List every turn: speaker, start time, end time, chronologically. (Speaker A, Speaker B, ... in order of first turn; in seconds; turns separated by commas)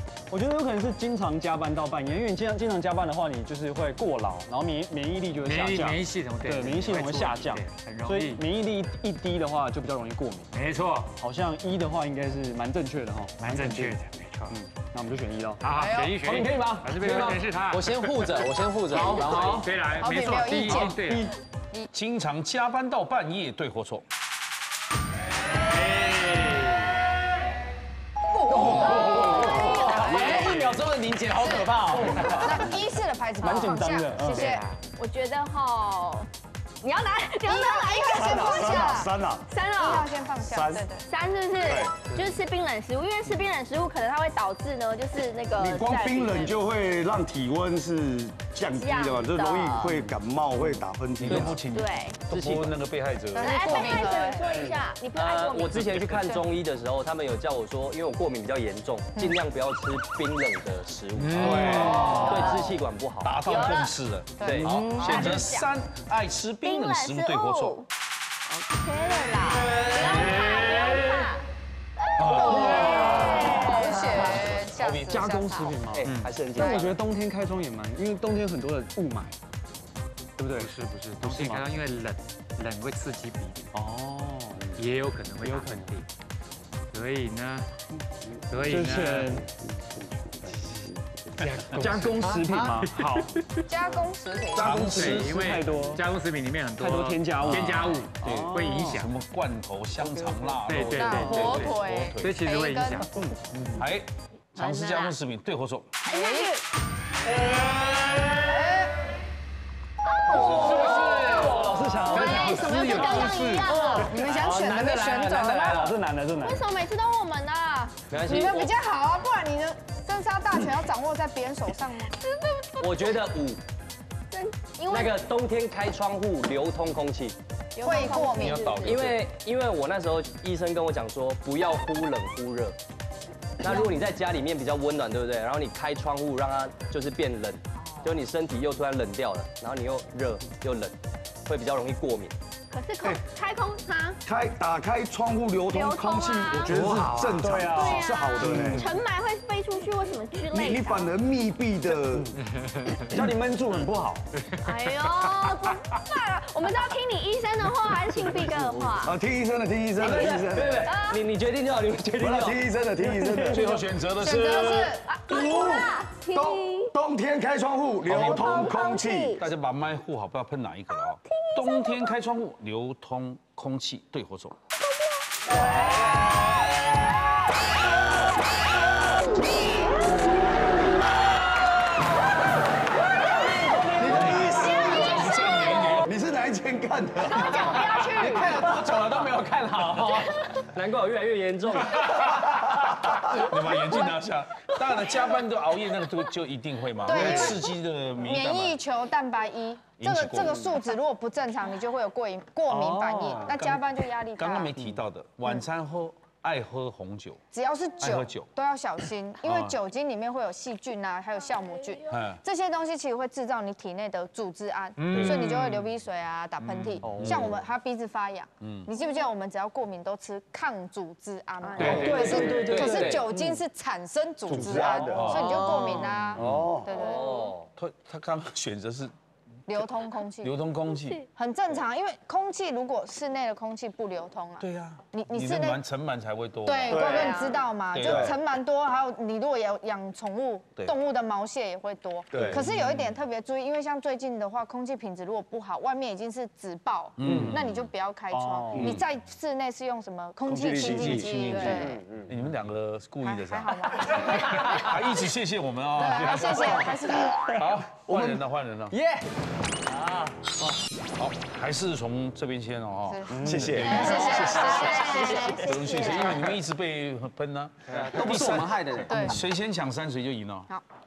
Speaker A: 0.3-10.5, Speaker B: 5.4-8.4, Speaker B: 10.5-11.1, Speaker A: 11.2-14.0, Speaker B: 13.4-14.6, Speaker A: 14.5-15.6, Speaker B: 15.6-21.3, Speaker C: 15.7-16.2, Speaker D: 16.2-19.7, Speaker C: 19.1-21.9, Speaker A: 20.8-21.3, Speaker E: 21.9-24.0, Speaker B: 25.9-26.7, Speaker C: 28.3-30.6, Speaker F: 28.4-30.5, Speaker D: 28.5-32.7, Speaker B: 30.4-30.8, Speaker C: 31.4-34.6, Speaker A: 31.9-32.8, Speaker A: 33.4-34.6, Speaker B: 34.2-34.8, Speaker F: 35.0-36.3, Speaker F: 36.8-40.1, Speaker C: 37.5-39.1, Speaker G: 38.1-39.5, Speaker C: 39.8-41.1, Speaker G: 40.4-40.9, Speaker F: 41.1-46.6, Speaker G: 41.6-42.0, Speaker G: 45.6-51.6, Speaker F: 48.7-50.0, Speaker E: 51.2-54.2, Speaker F: 51.7-52.2, Speaker H: 52.3-52.8, Speaker C: 53.3-54.5, Speaker F: 53.4-56.4, Speaker H: 55.1-63.6, Speaker C: 59.2-59.4, Speaker B: 61.2-62.5, Speaker E: 61.4-62.0, Speaker A: 61.4-62.5, Speaker E: 63.2-67.8, Speaker F: 63.5-63.9, Speaker C: 64.4-65.3, Speaker H: 64.4-64.8, Speaker F: 65.0-65.7, Speaker F: 66.6-67.9, Speaker F: 68.5-71.5, Speaker F: 72.0-74.6, Speaker E: 72.2-73.2, Speaker C: 72.3-77.0, Speaker A: 72.8-73.3, Speaker E: 74.4-75.4, Speaker A: 75.1-79.4, Speaker H: 75.9-76.9, Speaker A: 80.4-81.7, Speaker B: 80.6-83.7, Speaker A: 83.7-84.7, Speaker B: 84.8-86.1, Speaker A: 85.4-85.9, Speaker B: 86.9-87.7, Speaker B: 88.5-89.4, Speaker A: 88.6-89.5, Speaker B: 90.7-93.4, Speaker A: 91.7-93.5, Speaker C: 93.7-95.1, Speaker E: 94.5-95.5, Speaker A: 94.6-96.0, Speaker B: 94.9-99.1, Speaker A: 96.8-99.0, Speaker E: 97.4-102.4, Speaker A: 100.0-101.5, Speaker B: 100.6-103.1, Speaker C: 100.7-103.2, Speaker A: 103.1-103.8, Speaker E: 103.8-105.9, Speaker F: 104.5-105.2, Speaker F: 106.0-106.6, Speaker C: 106.1-106.5, Speaker C: 108.4-109.0, Speaker F: 110.1-114.2, Speaker C: 110.3-116.0, Speaker A: 110.3-114.8, Speaker B: 110.7-111.2, Speaker B: 112.6-113.2, Speaker H: 113.4-115.6, Speaker A: 115.5-116.7, Speaker F: 116.4-118.0, Speaker H: 118.1-118.7, Speaker C: 118.2-122.2, Speaker F: 122.2-123.2, Speaker H: 122.8-123.6, Speaker F: 124.3-125.2, Speaker H: 124.9-127.4, Speaker F: 127.8-129.0, Speaker C: 127.8-128.9, Speaker E: 128.2-129.3, Speaker H: 128.8-132.8, Speaker H: 133.6-142.4, Speaker C: 133.7-133.9, Speaker F: 142.7-144.2, Speaker G: 144.2-148.9, Speaker F: 145.7-146.7, Speaker B: 146.7-147.6, Speaker A: 146.8-148.9, Speaker F: 147.7-151.1, Speaker G: 150.5-152.3, Speaker B: 152.6-153.2, Speaker A: 153.1-154.3, Speaker B: 154.5-155.1, Speaker F: 154.6-159.2, Speaker G: 159.0-160.9, Speaker H: 160.0-162.7, Speaker F: 160.9-161.2, Speaker G: 162.2-163.7, Speaker A: 163.0-163.7, Speaker E: 163.5-165.0, Speaker C: 164.2-165.1, Speaker F: 165.0-166.9, Speaker G: 165.3-169.4, Speaker E: 168.1-168.9, Speaker F: 168.1-169.4, Speaker E: 169.4-174.6, Speaker F: 171.3-172.1, Speaker F: 175.5-176.1, Speaker G: 184.0-185.2, Speaker E: 184.0-186.1, Speaker F: 184.5-186.1, Speaker G: 186.0-187.9, Speaker F: 187.2-188.8, Speaker D: 188.0-190.4, Speaker H: 190.6-192.3, Speaker E: 192.3-198.8, Speaker C: 197.0-204.8, Speaker E: 200.0-200.7, Speaker A: 202.7-203.6, Speaker E: 203.6-203.8, Speaker E: 204.4-207.4, Speaker A: 204.8-205.0, Speaker C: 207.5-227.6, Speaker E: 208.0-208.5, Speaker E: 209.4-209.8, Speaker E: 212.1-212.4, Speaker B: 215.0-215.9, Speaker E: 215.1-215.5, Speaker E: 216.6-217.6, Speaker A: 217.0-217.5, Speaker E: 218.6-218.9, Speaker H: 221.7-223.3, Speaker B: 221.8-222.4, Speaker D: 221.8-223.3, Speaker A: 221.9-223.6, Speaker G: 224.5-225.4, Speaker E: 224.5-226.8, Speaker F: 225.3-226.1, Speaker G: 226.3-226.9, Speaker H: 226.8-227.7, Speaker E: 227.8-229.1, Speaker C: 229.7-230.7, Speaker E: 230.4-231.2, Speaker C: 231.3-235.8, Speaker E: 234.6-237.4, Speaker C: 236.7-252.1, Speaker G: 236.9-237.3, Speaker F: 236.9-237.7, Speaker E: 237.9-238.4, Speaker G: 238.0-238.3, Speaker G: 242.3-242.7, Speaker E: 242.3-243.1, Speaker E: 247.2-247.9, Speaker A: 248.3-248.9, Speaker G: 248.7-249.0, Speaker E: 248.8-249.0, Speaker G: 250.5-251.3, Speaker E: 250.8-259.0, Speaker F: 251.2-251.8, Speaker H: 251.7-252.3, Speaker C: 253.2-254.9, Speaker C: 255.9-257.6, Speaker H: 259.9-260.3, Speaker E: 261.2-270.7, Speaker C: 263.1-265.8, Speaker A: 263.3-263.9, Speaker G: 263.4-264.8, Speaker F: 263.9-266.6, Speaker B: 267.9-268.5, Speaker D: 268.0-269.2, Speaker C: 269.1-269.5